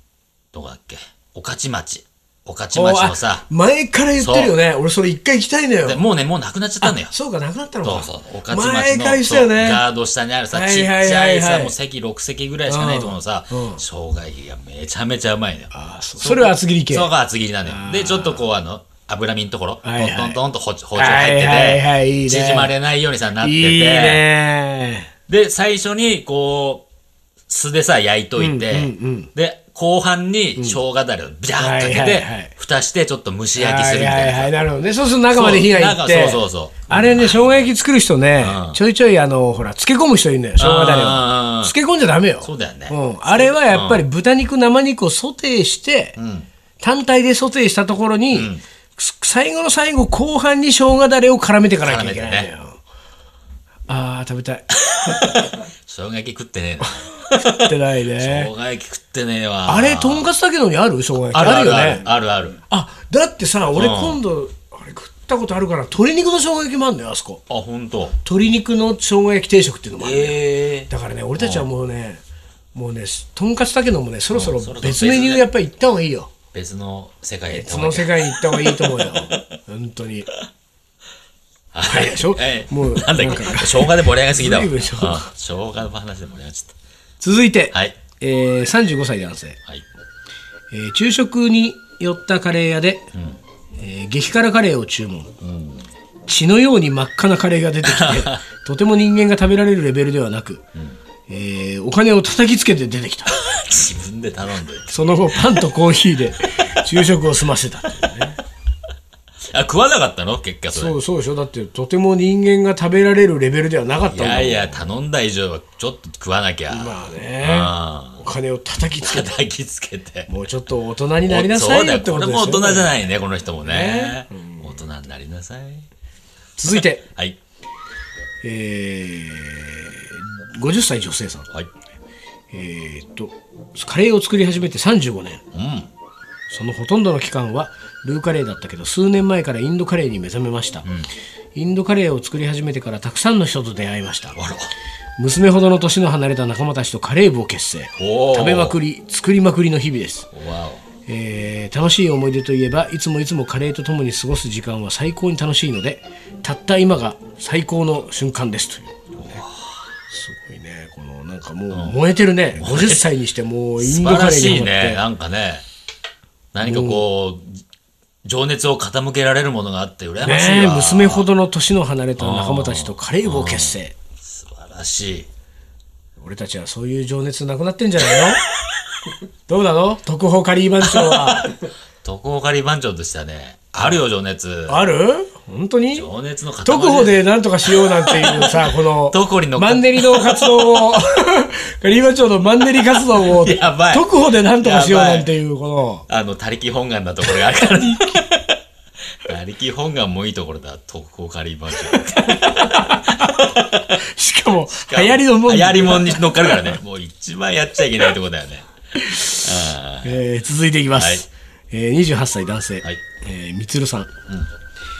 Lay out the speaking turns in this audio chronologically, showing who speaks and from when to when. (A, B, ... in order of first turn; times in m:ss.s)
0:00.5-0:03.4 A
0:02.7-0:06.0 B
0:04.2-0:04.6 A
0:05.8-0:07.1 A
0:06.8-0:09.8 B
0:07.8-0:24.2 A
0:10.5-0:11.7 B
0:12.7-0:13.8 B
0:15.7-0:17.1 B
0:17.7-0:18.4 B
0:19.8-0:20.4 B
0:21.0-0:22.7 B
0:23.4-0:25.1 B
0:25.3-0:26.9 A
0:27.5-0:34.6 A
0:28.4-0:29.3 B
0:31.6-0:32.5 B
0:33.6-0:46.2 B
0:35.3-0:37.7 A
0:38.4-0:38.8 A
0:40.6-0:41.8 A
0:42.4-0:44.0 A
0:46.2-0:46.5 A
0:46.8-0:52.8 B
0:48.3-0:48.6 A
0:51.8-0:52.5 A
0:53.9-0:55.5 B
0:54.9-1:00.3 A
0:56.9-0:58.5 B
0:59.7-1:02.1 B
1:01.2-1:02.6 A
1:02.7-1:07.4 B
1:03.8-1:04.2 A
1:07.5-1:08.2 A
1:08.2-1:12.2 B
1:10.0-1:11.7 A
1:12.7-1:16.3 B
1:14.3-1:15.5 A
1:16.5-1:19.5 A
1:17.5-1:20.3 B
1:21.7-1:26.8 A
1:21.8-1:25.3 B
1:27.2-1:29.6 B
1:27.7-1:28.0 A
1:30.7-1:33.1 B
1:33.1-1:33.4 A
1:33.8-1:35.3 B
1:35.4-1:35.9 A
1:36.3-1:40.6 B
1:37.8-1:38.4 A
1:41.3-1:43.4 B
1:43.3-1:45.8 A
1:44.9-1:48.4 B
1:46.7-1:47.1 A
1:49.5-1:51.0 A
1:50.7-1:54.8 B
1:54.1-1:58.2 A
1:56.7-1:59.4 B
1:59.0-2:00.3 A
2:00.3-2:03.0 B
2:01.2-2:05.9 A
2:03.6-2:04.8 B
2:06.6-2:07.1 B
2:06.8-2:07.4 A
2:08.4-2:11.5 B
2:12.5-2:15.4 B
2:15.5-2:15.9 A
2:16.5-2:20.9 B
2:21.6-2:24.4 B
2:24.4-2:24.7 A
2:25.2-2:30.3 B
2:28.0-2:28.8 A
2:30.3-2:30.8 A
2:31.1-2:39.4 B
2:39.1-2:39.9 A
2:40.1-2:45.0 B
2:41.7-2:42.0 A
2:42.5-2:43.1 A
2:43.8-2:45.7 A
2:46.5-2:47.6 A
2:46.6-2:47.0 B
2:48.2-2:51.3 A
2:50.2-2:53.9 B
2:52.2-2:55.3 A
2:56.2-2:58.4 B
2:59.5-3:01.5 B
3:00.8-3:04.8 A
3:04.7-3:06.1 B
3:05.9-3:10.9 A
3:06.6-3:16.1 B
3:12.9-3:15.3 A
3:16.1-3:18.6 A
3:19.2-3:24.0 A
3:21.8-3:26.8 B
3:24.7-3:28.7 A
3:29.0-3:29.4 B
3:29.2-3:30.2 A
3:30.0-3:34.1 B
3:30.9-3:31.2 A